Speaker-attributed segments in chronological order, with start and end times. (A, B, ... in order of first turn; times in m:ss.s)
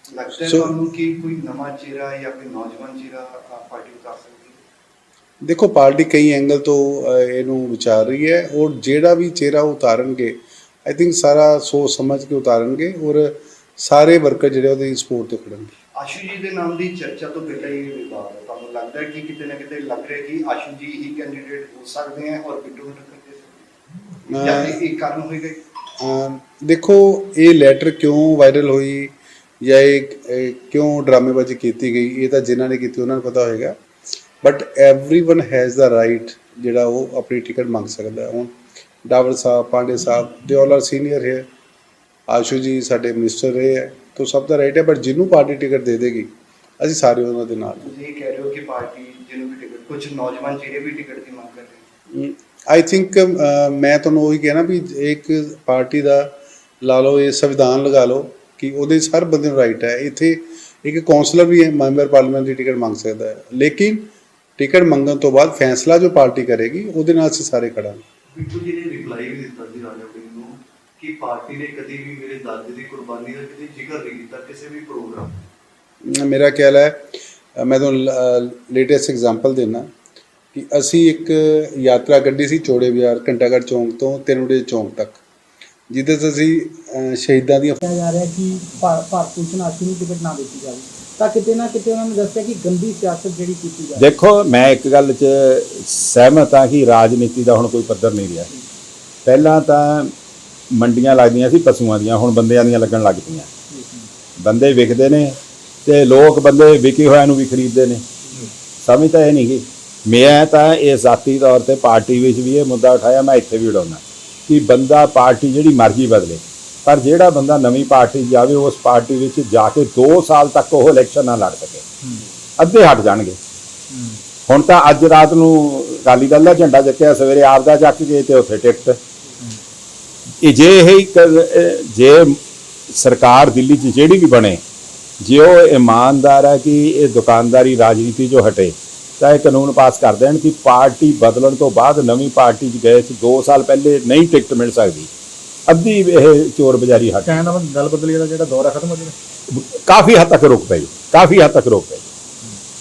0:00.1-0:04.6 A
0:00.4-0:00.7 B
0:05.4-0:15.7 B
0:16.0-0:23.7 A
0:24.3-0:24.8 B
0:24.4-0:25.6 A
0:26.0-0:33.8 B
0:34.4-0:38.5 B
0:39.0-0:41.4 B
0:42.3-0:47.9 B
0:47.8-0:51.8 A
0:52.1-1:08.0 B
1:08.3-1:15.4 C
1:16.1-1:19.9 B
1:20.5-1:25.2 B
1:25.9-1:27.8 B
1:27.8-1:34.1 D
1:34.0-1:38.5 E
1:39.2-1:40.1 E
1:40.7-1:43.5 E
1:44.4-1:48.0 E
1:48.8-2:01.8 E
2:02.6-2:03.4 E
2:03.9-2:04.2 F
2:04.5-2:09.0 E
2:10.4-2:12.4 E
2:12.9-2:14.6 E
2:15.2-2:25.1 E
2:25.7-2:27.5 E
2:27.2-2:29.1 F
2:29.5-2:32.1 E